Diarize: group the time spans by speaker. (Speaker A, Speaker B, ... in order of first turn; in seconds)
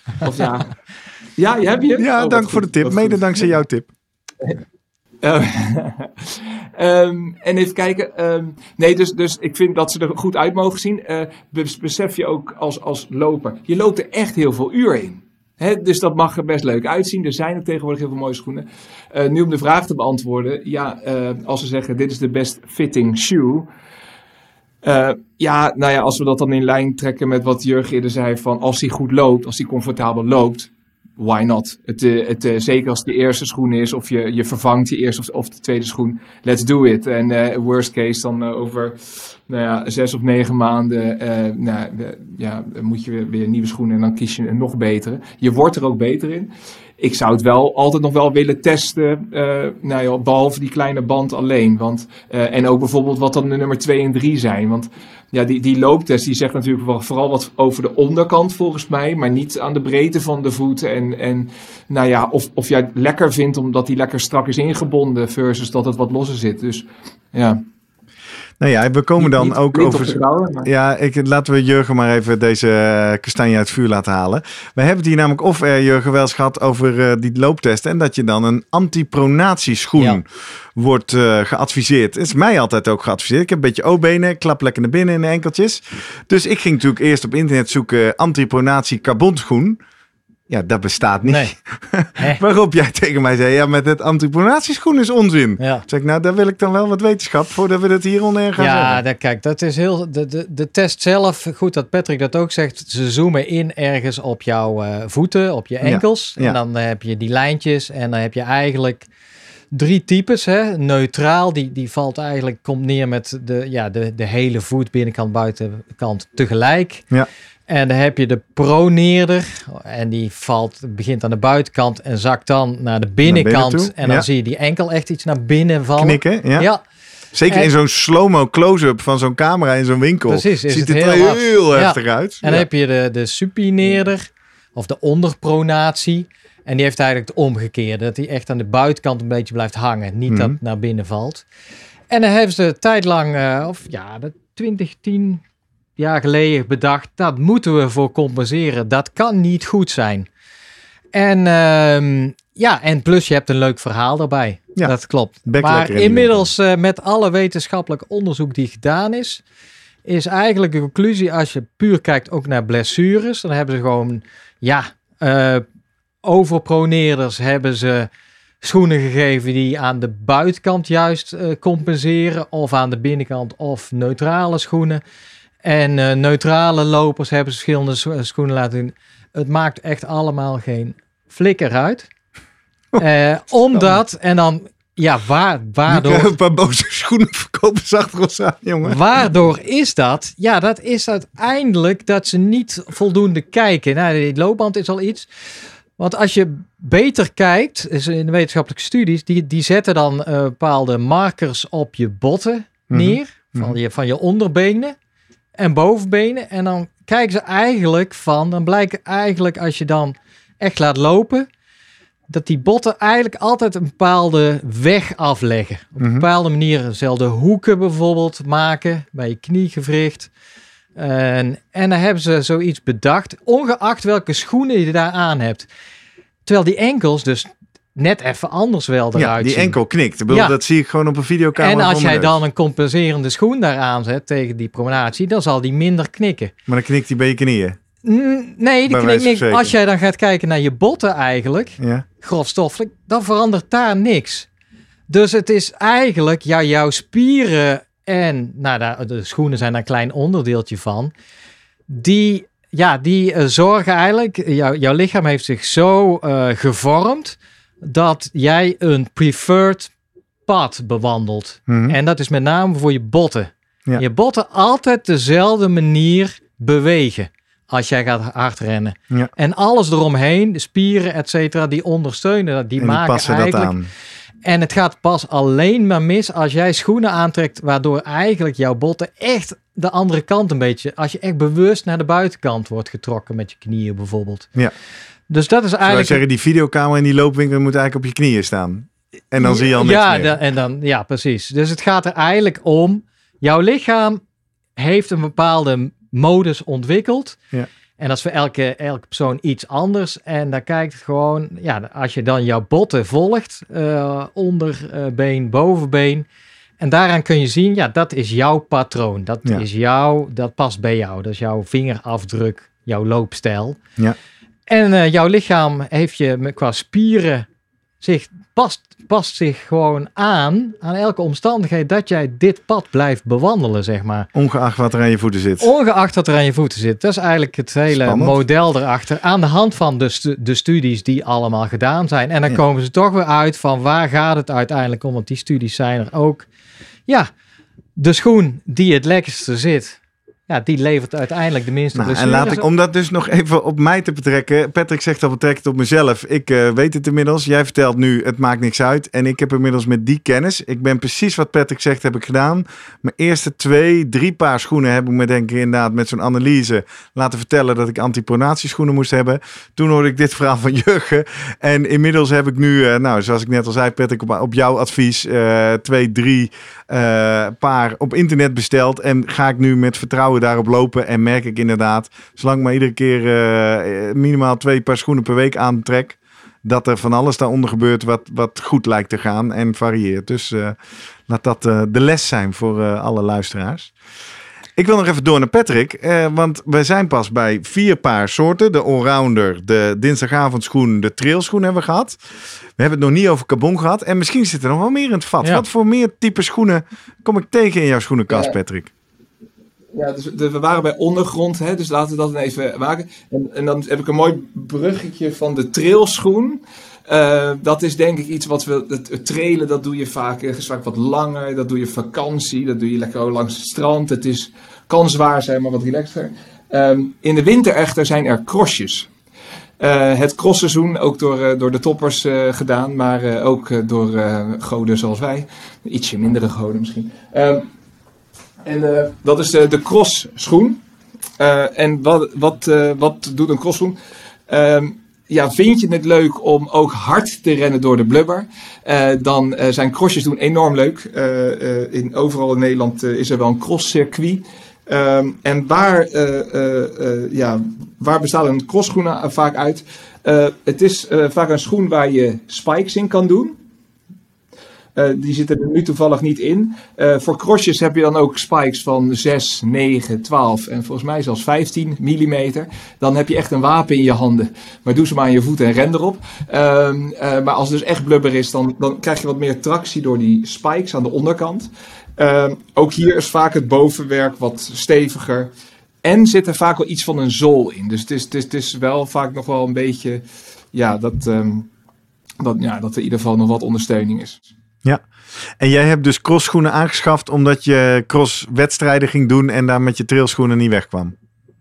Speaker A: 0.2-0.7, 1.4-3.5, 5.2-23.7, 24.8-67.6, 69.2-70.7, 398.3-398.6, 399.9-419.1, 419.8-427.6, 428.6-430.8, 431.4-434.0, 434.5-453.5, 454.9-475.5, 476.0-481.7, 482.4-484.4
Speaker B: 2.0-3.9, 68.6-89.8, 90.5-99.0, 105.8-106.6, 123.3-124.2, 126.0-126.7, 127.3-132.7, 140.3-140.6, 155.4-156.4, 185.9-189.0, 202.9-203.7, 216.0-216.2, 229.2-232.3, 236.7-237.8, 238.9-239.7, 241.8-242.1, 261.7-261.9, 272.8-273.9, 285.8-290.4, 324.3-325.7, 327.9-328.4, 341.9-380.8, 381.3-383.9, 384.8-392.2, 392.8-398.9, 485.6-491.1
Speaker C: 91.2-91.5, 95.6-95.8, 98.5-109.1, 109.7-117.0, 117.7-126.8, 130.3-141.4, 142.1-145.4, 146.0-150.3, 151.1-159.4, 160.0-165.6, 166.2-168.1, 168.6-175.0, 175.6-182.1, 183.0-186.3, 188.8-195.3, 196.0-204.9, 205.6-211.5, 212.3-220.3, 220.9-225.7, 226.4-229.8, 230.3-230.5, 231.6-236.5, 238.0-244.5, 245.1-251.1, 251.9-259.9, 260.5-273.7, 274.4-284.5, 285.3-286.2, 289.4-294.2, 294.8-297.4, 298.0-306.2, 306.8-313.8, 314.7-317.5, 318.0-324.3, 325.6-336.5, 338.0-342.6